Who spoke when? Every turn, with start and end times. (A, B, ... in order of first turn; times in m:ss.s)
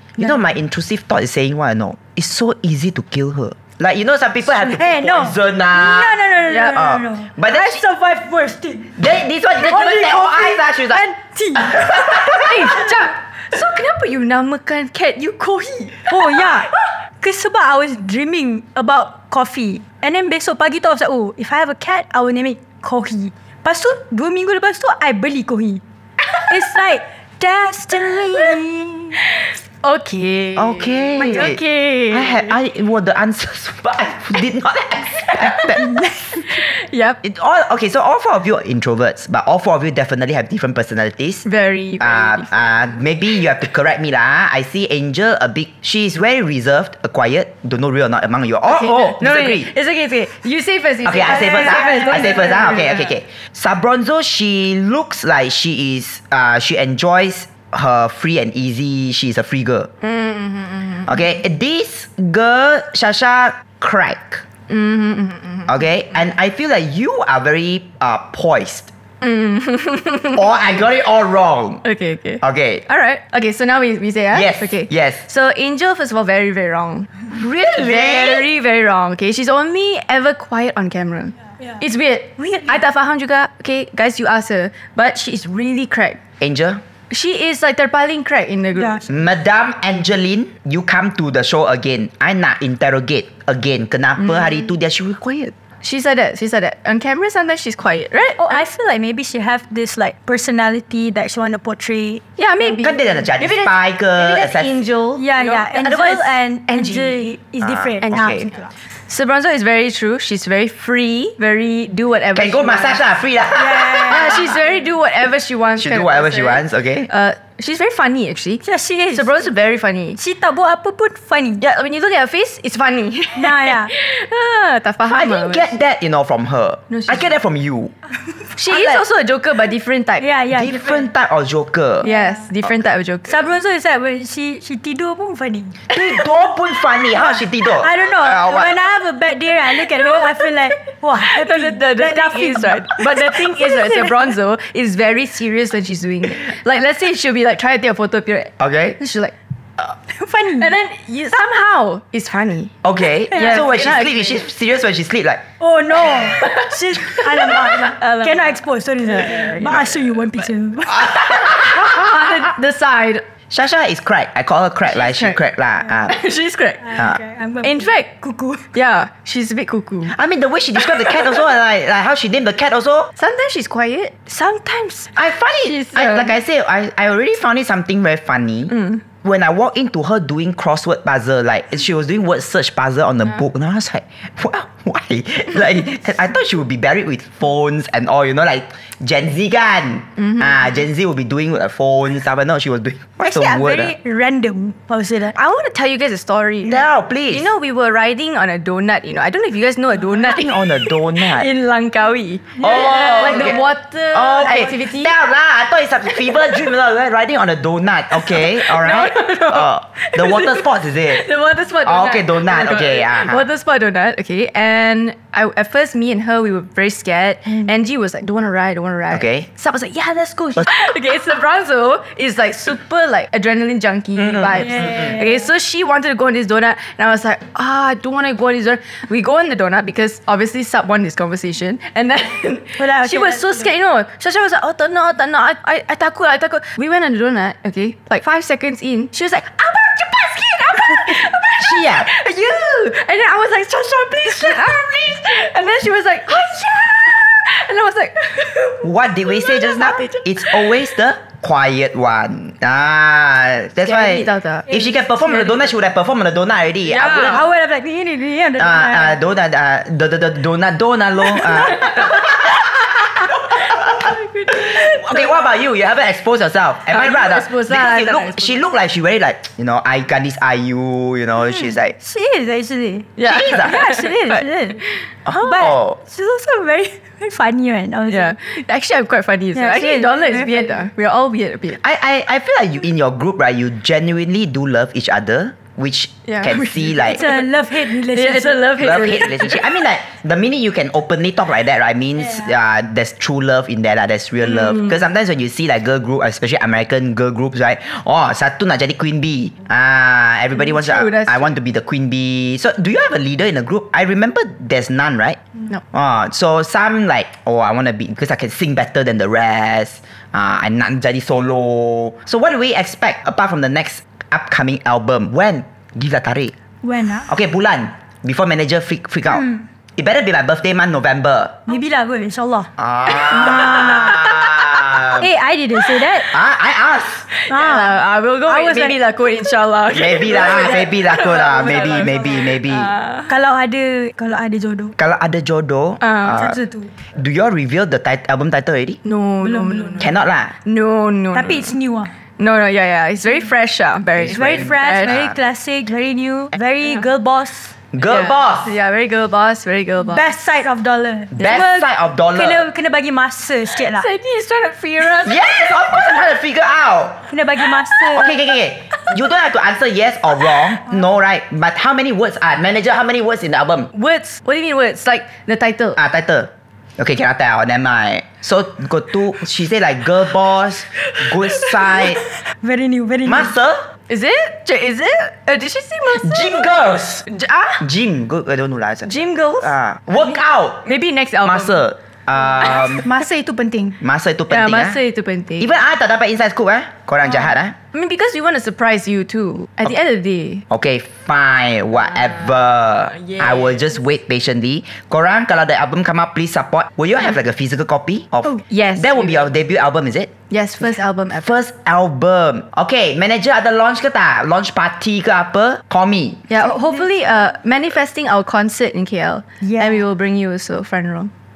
0:00.2-0:07.8 A
0:04.6-0:09.0 B
0:06.5-0:06.8 C
0:09.0-0:11.0 A
0:09.6-0:12.6 B
0:11.7-0:12.4 A
0:12.3-0:16.3 C
0:16.1-0:25.8 B
0:26.4-0:29.2 B
0:29.8-0:32.5 C
0:30.6-0:35.8 A
0:35.8-0:36.4 B
0:36.4-0:37.2 C
0:37.2-0:41.4 A
0:41.4-0:42.5 C
0:42.0-0:49.7 A
0:48.7-0:53.1 C
0:51.0-0:59.9 A
0:51.7-0:52.2 B
1:00.0-1:01.1 C
1:01.1-1:04.4 A
1:04.7-1:05.7 C
1:05.7-1:08.9 A
1:09.2-1:10.4 C
1:10.3-1:11.8 A
1:11.8-1:26.2 C
1:12.4-1:12.8 A
1:14.3-1:15.2 A
1:17.3-1:18.5 A
1:26.4-1:26.8 A
1:27.1-1:29.0 C
1:28.8-1:29.0 B
1:29.1-1:35.5 A
1:35.8-1:38.6 C
1:38.4-1:42.2 B
1:42.4-1:47.2 C
1:42.7-1:44.8 A
1:45.2-1:48.7 B
1:45.8-1:46.2 A
1:47.6-1:48.5 A
1:49.1-1:53.0 C
1:52.3-1:54.5 A
1:53.5-1:54.5 B
1:54.0-2:00.2 C
1:55.8-1:57.1 A
1:58.6-1:59.4 B
2:00.1-2:01.6 B
2:01.6-2:05.7 C
2:03.4-2:03.9 B
2:05.1-2:07.9 A
2:06.9-2:07.3 C
2:08.6-2:10.3 C
2:08.7-2:09.0 B
2:10.2-2:11.1 B
2:10.5-2:12.1 A
2:12.0-2:13.4 C
2:13.3-2:15.8 B
2:15.9-2:18.7 A
2:17.6-2:24.2 B
2:21.2-2:29.3 C
2:28.6-2:29.0 A
2:30.1-2:30.7 B
2:30.6-2:32.7 C
2:32.8-2:35.4 A
2:33.3-2:33.7 B
2:33.3-2:34.4 C
2:35.6-2:41.2 B
2:36.4-2:38.5 C
2:39.1-2:39.7 C
2:39.6-2:40.0 A
2:41.0-2:43.2 C
2:43.5-2:46.2 A
2:44.9-2:45.4 C
2:46.1-2:46.8 C
2:46.8-2:48.6 B
2:47.6-2:48.1 C
2:48.7-2:50.1 C
2:50.1-2:53.1 A
2:53.2-2:54.1 C
2:54.3-2:55.0 B
2:55.1-3:13.9 A
2:55.6-2:56.3 C
2:58.7-2:59.0 C
3:13.2-3:15.3 B
3:15.3-3:25.1 C
3:16.6-3:17.5 A
3:20.2-3:21.5 A
3:22.6-3:31.2 A
3:22.9-3:23.5 B
3:28.2-4:10.6 C
3:31.8-3:33.4 A
3:39.1-3:39.5 A
3:44.8-3:45.2 B
3:52.8-3:53.7 B
4:01.6-4:02.1 A
4:08.8-4:17.4 A
4:13.8-4:15.6 C
4:16.9-4:17.4 C
4:17.0-4:19.2 B
4:18.6-4:22.6 A
4:23.5-4:32.0 A
4:23.8-4:25.2 C
4:26.9-4:28.6 C
4:32.0-4:34.8 B
4:33.2-4:34.4 C
4:33.2-4:33.7 A
4:35.2-4:36.0 A
4:35.4-4:38.4 B
4:38.1-4:41.8 C
4:39.5-4:40.8 B
4:41.8-4:47.2 A
4:46.3-4:47.4 C
4:47.0-4:48.8 B
4:47.9-4:49.6 C
4:48.8-5:05.4 A
4:54.6-4:54.9 C
5:00.5-5:01.5 C
5:05.9-5:16.5 A
5:16.8-5:17.3 B
5:17.3-5:21.6 A
5:19.3-5:19.6 B
5:21.7-5:26.3 B
5:22.8-5:25.3 A
5:23.3-5:24.4 C
5:26.3-5:27.2 A
5:27.4-5:33.3 C
5:27.5-5:29.0 B
5:29.9-5:32.9 A
5:31.5-5:32.2 B
5:33.3-5:34.9 B
5:35.0-5:36.6 A
5:36.0-5:36.4 C
5:36.2-5:36.9 B
5:37.1-5:39.0 A
5:39.0-5:40.1 C
5:39.4-5:40.1 B
5:40.0-5:40.5 A
5:40.6-5:41.7 C
5:41.3-5:42.1 B
5:42.4-5:45.2 C
5:44.2-5:45.3 A
5:44.3-5:47.7 B
5:47.9-5:48.7 A
5:48.1-5:50.2 C
5:50.0-5:54.0 B
5:51.3-5:52.6 A
5:53.8-5:56.2 C
5:55.0-5:57.2 A
5:57.3-5:58.4 B
5:58.1-6:03.9 A
6:03.9-6:06.0 C
6:06.0-6:12.2 A
6:11.6-6:13.5 B
6:13.2-6:13.8 A
6:14.1-6:17.8 C
6:16.1-6:17.3 A
6:17.8-6:20.8 A
6:19.1-6:19.7 C
6:20.8-6:21.8 C
6:21.4-6:23.0 A
6:22.6-6:24.0 B
6:24.0-6:25.0 A
6:24.5-6:25.7 C
6:25.6-6:27.8 A
6:27.9-6:30.6 C
6:30.7-6:40.3 A
6:33.2-6:33.5 C
6:38.7-6:39.4 C
6:40.5-6:41.6 C
6:41.4-6:46.4 A
6:46.5-6:51.3 C
6:49.6-6:50.0 B